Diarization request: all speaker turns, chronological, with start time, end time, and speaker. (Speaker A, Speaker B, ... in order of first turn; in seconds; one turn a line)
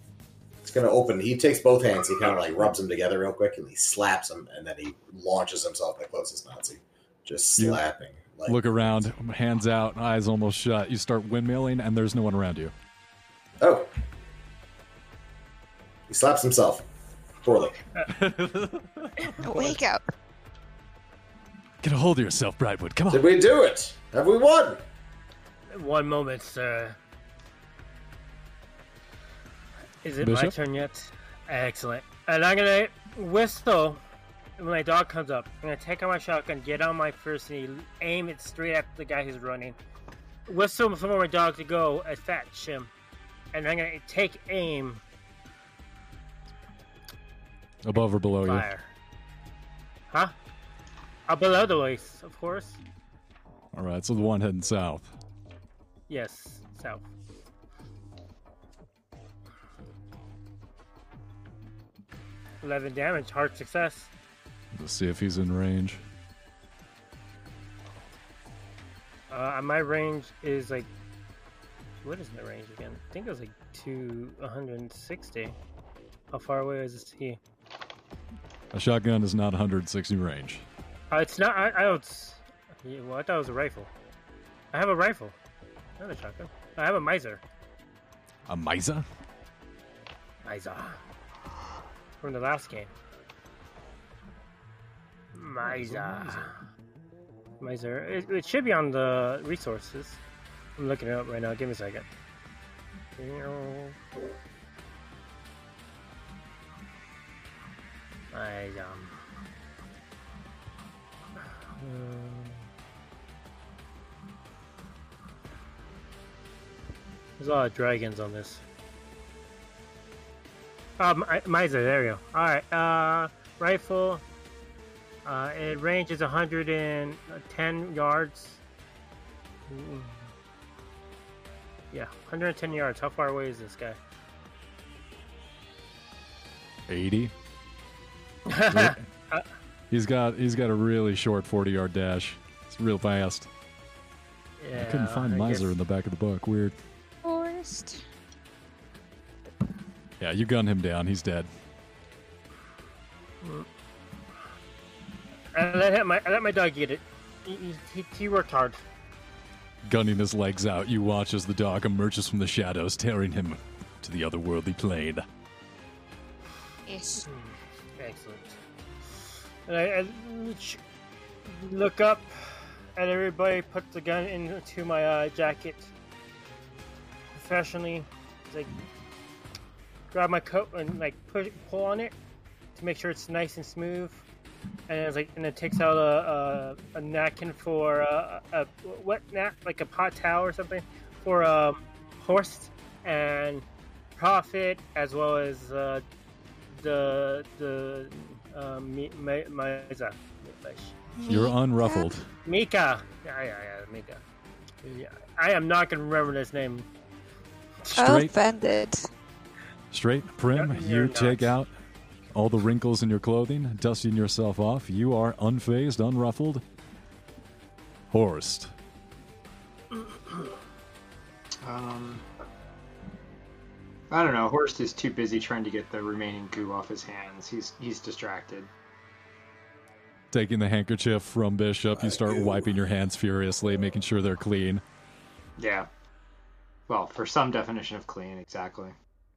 Speaker A: 0.6-8.7
Speaker B: 8.5-12.7
Speaker A: 13.6-13.9
Speaker A: 16.1-16.9
Speaker A: 17.4-17.8
Speaker B: 18.1-19.7
Speaker C: 19.4-20.0
Speaker B: 21.8-23.3
Speaker A: 23.1-24.8
Speaker D: 25.7-27.0
Speaker D: 30.0-34.0
Speaker B: 30.2-30.5
Speaker D: 34.6-39.8
Speaker D: 40.5-42.9
Speaker D: 43.5-45.0
Speaker B: 47.8-48.7
Speaker D: 48.4-48.9
Speaker D: 51.3-52.8
Speaker B: 53.7-55.1
Speaker D: 56.1-57.1
Speaker D: 62.6-64.1
Speaker B: 64.7-66.0
Speaker D: 69.3-70.9
Speaker D: 72.0-75.6
Speaker D: 76.3-77.4
Speaker B: 78.7-80.7
Speaker D: 81.1-83.9
Speaker D: 84.7-85.4
Speaker D: 86.0-87.4
Speaker B: 88.5-89.0
Speaker D: 90.5-91.0
Speaker D: 92.2-92.9
Speaker D: 95.3-96.6
Speaker B: 95.6-96.5
Speaker D: 97.6-100.2
Speaker D: 100.8-102.1
Speaker D: 103.2-104.0
Speaker D: 108.3-109.2
Speaker D: 111.4-112.7
Speaker D: 117.4-118.6
Speaker D: 121.0-124.2
Speaker D: 125.2-128.6
Speaker D: 129.7-130.3
Speaker D: 131.9-134.0
Speaker B: 136.9-137.3
Speaker D: 138.5-139.4
Speaker B: 138.7-139.0
Speaker B: 139.9-143.5
Speaker D: 144.6-145.7
Speaker B: 144.8-146.8
Speaker C: 147.2-148.0
Speaker B: 150.2-151.5
Speaker D: 155.5-158.8
Speaker B: 159.9-165.2
Speaker C: 166.9-167.3
Speaker D: 167.3-168.6
Speaker D: 169.7-170.8
Speaker D: 171.4-175.9
Speaker D: 177.3-178.7
Speaker D: 180.1-182.2
Speaker D: 182.8-184.2
Speaker D: 184.9-193.7
Speaker D: 194.2-196.0
Speaker D: 196.7-200.9
Speaker C: 201.2-202.1
Speaker B: 201.3-202.3
Speaker D: 202.4-204.2
Speaker D: 204.8-206.9
Speaker B: 207.9-208.3
Speaker C: 208.0-209.0
Speaker B: 209.9-211.7
Speaker D: 210.5-211.5
Speaker B: 212.3-216.6
Speaker B: 218.1-218.7
Speaker E: 221.6-222.2
Speaker E: 224.1-228.7
Speaker B: 230.3-234.8
Speaker A: 232.0-232.7
Speaker E: 235.6-235.9
Speaker E: 236.9-238.9